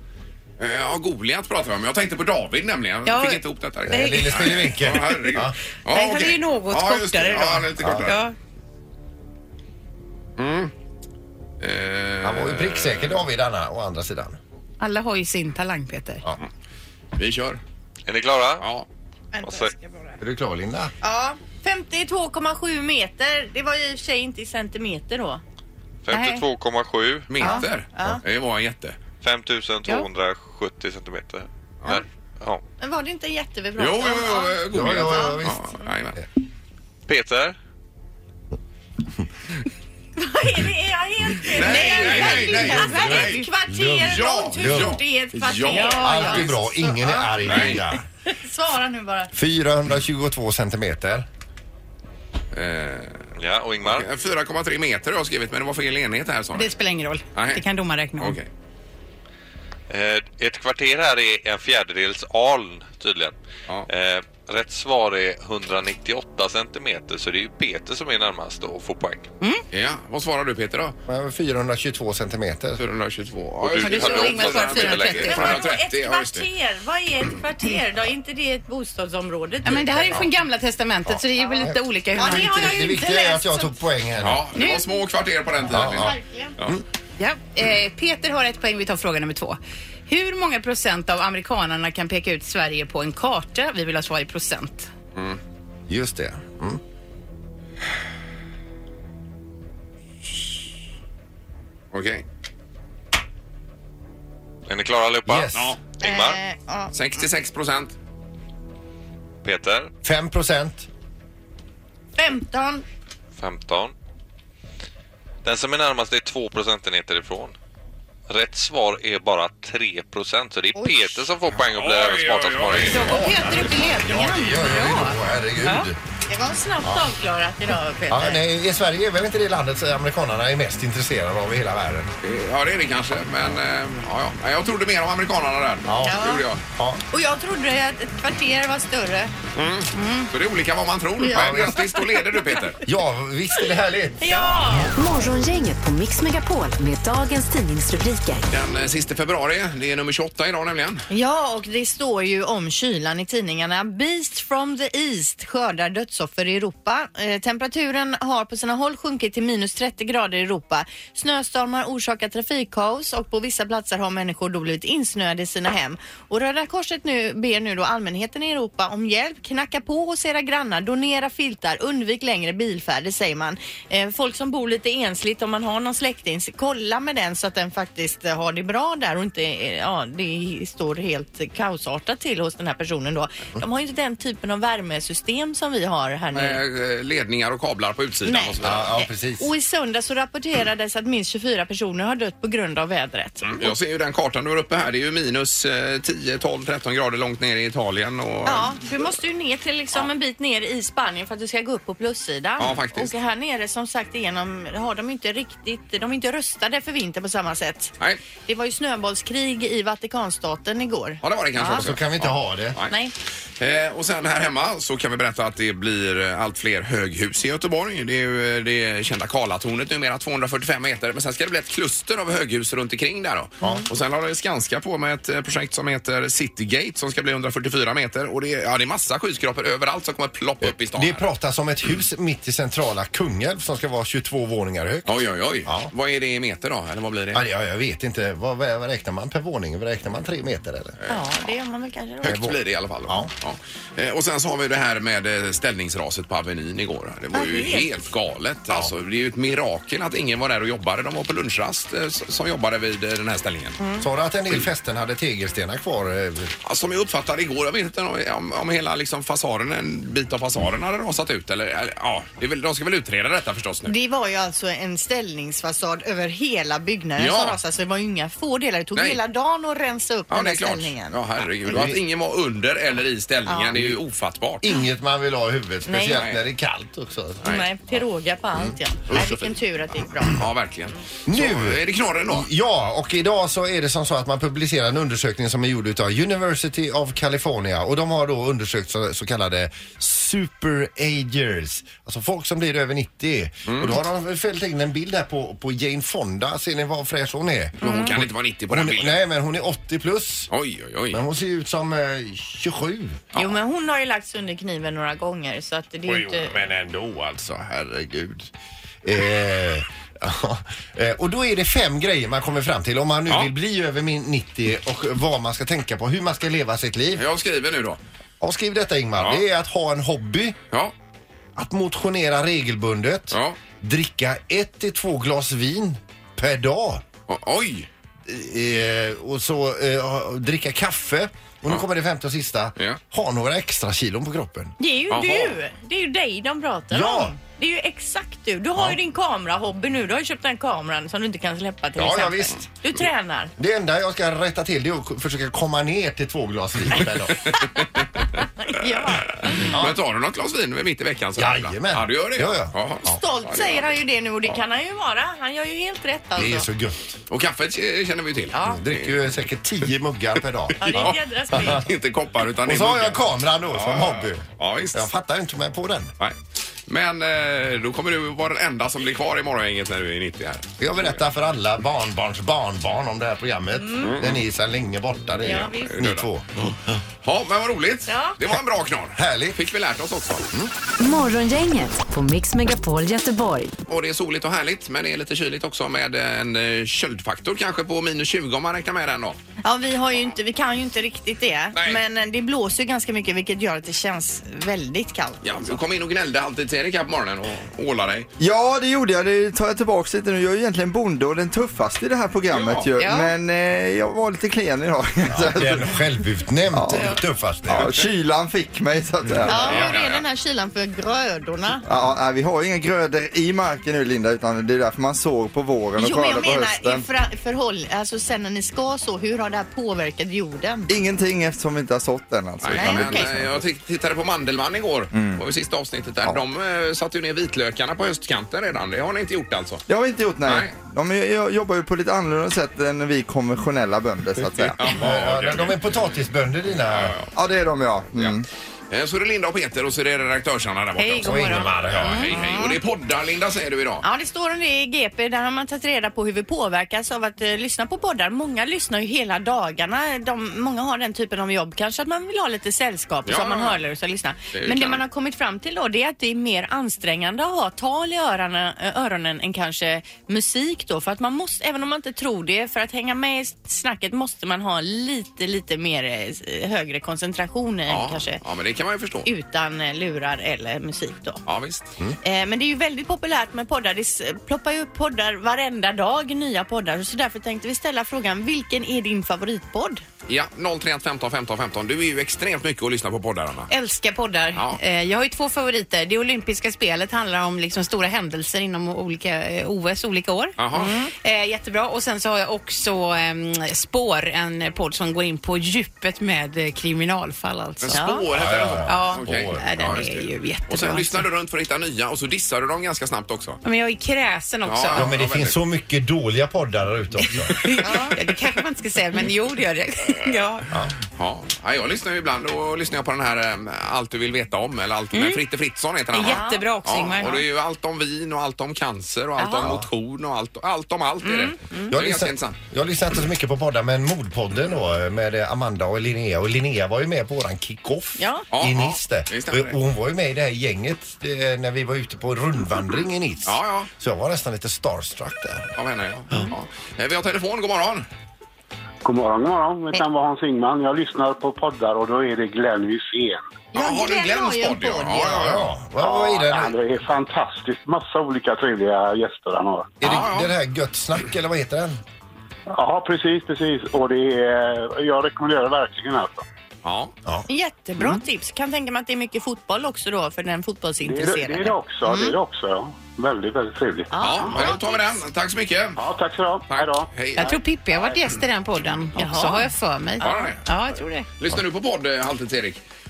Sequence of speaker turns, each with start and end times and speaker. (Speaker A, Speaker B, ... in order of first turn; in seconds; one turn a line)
Speaker A: 0.6-8.2
Speaker B: 3.1-4.3
Speaker C: 3.9-5.6
Speaker B: 5.9-8.3
Speaker C: 7.8-8.2
Speaker A: 10.4-10.7
Speaker A: 11.6-13.2
Speaker C: 12.2-14.4
Speaker B: 14.8-16.2
Speaker A: 17.2-17.6
Speaker D: 18.1-18.7
Speaker A: 18.6-18.9
Speaker E: 19.3-20.2
Speaker D: 19.4-19.7
Speaker C: 20.2-20.9
Speaker E: 21.0-25.4
Speaker D: 26.1-27.5
Speaker B: 26.1-26.4
Speaker A: 27.3-29.0
Speaker E: 27.4-28.2
Speaker D: 29.2-32.6
Speaker E: 32.8-35.4
Speaker A: 33.8-36.2
Speaker C: 34.7-35.7
Speaker D: 37.1-37.6
Speaker E: 40.2-49.3
Speaker A: 41.4-43.5
Speaker C: 41.9-48.0
Speaker A: 44.0-46.6
Speaker A: 47.4-47.8
Speaker C: 49.3-51.3
Speaker A: 52.5-53.3
Speaker D: 53.4-54.1
Speaker A: 53.8-56.7
Speaker B: 56.5-58.4
Speaker A: 57.3-57.6
Speaker A: 58.2-58.5
Speaker D: 59.9-63.4
Speaker D: 63.9-69.3
Speaker A: 69.7-71.0
Speaker C: 71.1-72.8
Speaker A: 72.8-76.5
Speaker D: 73.6-75.6
Speaker B: 73.8-75.6
Speaker E: 73.9-80.3
Speaker B: 79.7-83.0
Speaker C: 81.1-84.5
Speaker E: 81.4-83.7
Speaker A: 84.2-86.8
Speaker B: 84.6-84.9
Speaker C: 85.7-86.2
Speaker E: 85.8-86.6
Speaker B: 87.2-94.9
Speaker C: 95.9-96.8
Speaker A: 101.9-102.2
Speaker D: 104.7-106.4
Speaker C: 105.2-105.8
Speaker A: 105.5-105.8
Speaker E: 106.0-106.9
Speaker A: 106.9-108.0
Speaker D: 109.4-109.9
Speaker C: 110.0-110.9
Speaker E: 112.2-112.8
Speaker D: 113.4-113.9
Speaker D: 115.4-117.5
Speaker D: 118.3-123.2
Speaker E: 120.7-121.2
Speaker A: 121.6-123.6
Speaker B: 122.9-125.1
Speaker E: 123.2-124.8
Speaker C: 123.3-126.0
Speaker E: 126.3-128.4
Speaker C: 126.8-127.1
Speaker C: 128.1-132.1
Speaker A: 132.2-136.6
Speaker C: 135.9-137.0
Speaker E: 136.0-136.5
Speaker E: 137.1-139.3
Speaker A: 139.6-142.8
Speaker E: 139.9-140.3
Speaker E: 141.2-142.4
Speaker C: 141.3-141.8
Speaker C: 142.8-144.9
Speaker E: 144.2-144.9
Speaker F: 144.9-148.5
Speaker A: 148.5-151.1
Speaker E: 151.1-186.6
Speaker A: 186.3-188.9
Speaker E: 188.2-193.7
Speaker C: 188.6-189.5
Speaker A: 193.4-198.8
Speaker E: 198.5-207.9
Speaker A: 202.6-203.1
Speaker E: 208.4-211.9
Speaker A: 211.2-213.0
Speaker C: 211.7-212.8
Speaker E: 212.9-213.1
Speaker A: 213.6-231.3
Speaker E: 223.6-223.9
Speaker C: 230.6-235.9
Speaker A: 235.1-237.4
Speaker C: 237.3-241.0
Speaker E: 241.1-242.3
Speaker C: 242.2-243.3
Speaker A: 242.2-253.8
Speaker E: 247.3-248.0
Speaker E: 253.8-254.0
Speaker C: 254.0-256.5
Speaker A: 256.6-263.9
Speaker E: 263.9-271.2
Speaker A: 267.2-267.6
Speaker A: 270.3-274.6
Speaker C: 271.7-272.0
Speaker E: 273.5-273.7
Speaker C: 273.7-274.0
Speaker C: 274.6-277.5
Speaker E: 275.9-276.2
Speaker A: 276.1-276.4
Speaker E: 277.4-280.4
Speaker A: 279.1-282.5
Speaker C: 281.3-300.5
Speaker A: 293.7-294.0
Speaker E: 297.8-298.1
Speaker A: 297.8-299.2
Speaker A: 300.5-301.2
Speaker C: 301.1-303.2
Speaker E: 303.4-306.5
Speaker C: 306.1-308.5
Speaker C: 309.0-317.2
Speaker A: 317.2-318.0
Speaker C: 318.4-320.6
Speaker C: 321.6-327.0
Speaker A: 323.3-323.6
Speaker A: 327.3-327.9
Speaker C: 328.3-334.8
Speaker E: 334.8-343.5
Speaker A: 335.1-335.6
Speaker C: 336.9-337.4
Speaker C: 342.0-342.7
Speaker C: 343.6-347.5
Speaker A: 347.4-348.1
Speaker E: 348.4-349.8
Speaker A: 349.2-353.9
Speaker C: 349.7-350.0
Speaker C: 351.4-353.2
Speaker E: 353.1-356.7
Speaker C: 356.4-357.2
Speaker A: 357.3-359.4
Speaker E: 358.5-358.8
Speaker C: 358.6-361.9
Speaker E: 360.8-361.9
Speaker A: 360.8-365.1
Speaker C: 362.6-366.1
Speaker A: 366.9-370.8
Speaker C: 370.8-376.6
Speaker E: 373.8-374.1
Speaker A: 374.0-374.4
Speaker E: 375.4-375.9
Speaker A: 375.6-380.5
Speaker E: 378.1-378.4
Speaker C: 379.1-379.6
Speaker F: 381.0-383.7
Speaker A: 383.9-389.4
Speaker E: 389.6-395.8
Speaker A: 391.8-392.0
Speaker A: 395.4-398.3
Speaker G: 398.4-406.0
Speaker A: 402.5-402.9
Speaker B: 403.0-403.3
Speaker C: 405.3-407.9
Speaker G: 406.7-407.1
Speaker G: 407.7-409.9
Speaker A: 407.7-408.1
Speaker E: 409.5-411.9
Speaker A: 409.5-410.2
Speaker G: 411.9-417.0
Speaker E: 416.0-420.9
Speaker G: 420.9-423.6
Speaker A: 422.6-429.8
Speaker E: 422.7-423.3
Speaker G: 425.1-425.4
Speaker G: 429.9-434.8
Speaker A: 430.4-430.7
Speaker C: 434.6-437.1
Speaker A: 434.8-435.9
Speaker A: 436.8-437.3
Speaker G: 437.4-438.4
Speaker A: 438.9-444.1
Speaker E: 441.0-442.8
Speaker B: 441.1-441.6
Speaker C: 441.2-442.4
Speaker E: 444.0-468.4
Speaker A: 453.3-453.8
Speaker A: 454.5-455.0
Speaker A: 467.9-469.3
Speaker E: 469.2-471.4
Speaker A: 471.5-471.9
Speaker E: 472.2-480.0
Speaker A: 480.3-483.7
Speaker B: 483.7-498.1
Speaker A: 484.5-484.8
Speaker A: 490.6-490.9
Speaker E: 490.7-491.1
Speaker A: 497.8-503.6
Speaker E: 497.9-498.2
Speaker C: 498.3-500.0
Speaker B: 498.9-501.3
Speaker B: 503.6-505.1
Speaker A: 504.6-505.6
Speaker C: 504.9-507.7
Speaker B: 507.6-510.7
Speaker E: 507.8-508.2
Speaker A: 511.1-522.6
Speaker B: 515.1-515.4
Speaker B: 516.1-517.4
Speaker E: 516.2-516.7
Speaker E: 519.4-519.7
Speaker E: 521.2-521.9
Speaker C: 521.9-535.7
Speaker E: 528.2-528.4
Speaker A: 528.5-529.8
Speaker A: 533.5-533.9
Speaker A: 535.8-538.1
Speaker H: 539.0-543.5
Speaker E: 543.7-545.6
Speaker A: 543.7-545.7
Speaker C: 545.3-546.8
Speaker H: 546.0-550.0
Speaker C: 550.0-552.0
Speaker A: 550.0-550.5
Speaker H: 552.7-556.5
Speaker A: 556.8-557.1
Speaker E: 557.5-562.4
Speaker H: 561.0-564.7
Speaker E: 564.1-565.0
Speaker A: 564.2-566.0
Speaker H: 566.0-568.2
Speaker A: 566.7-567.5
Speaker B: 567.4-571.3
Speaker E: 569.2-570.4
Speaker A: 570.2-570.6
Speaker A: 571.4-572.8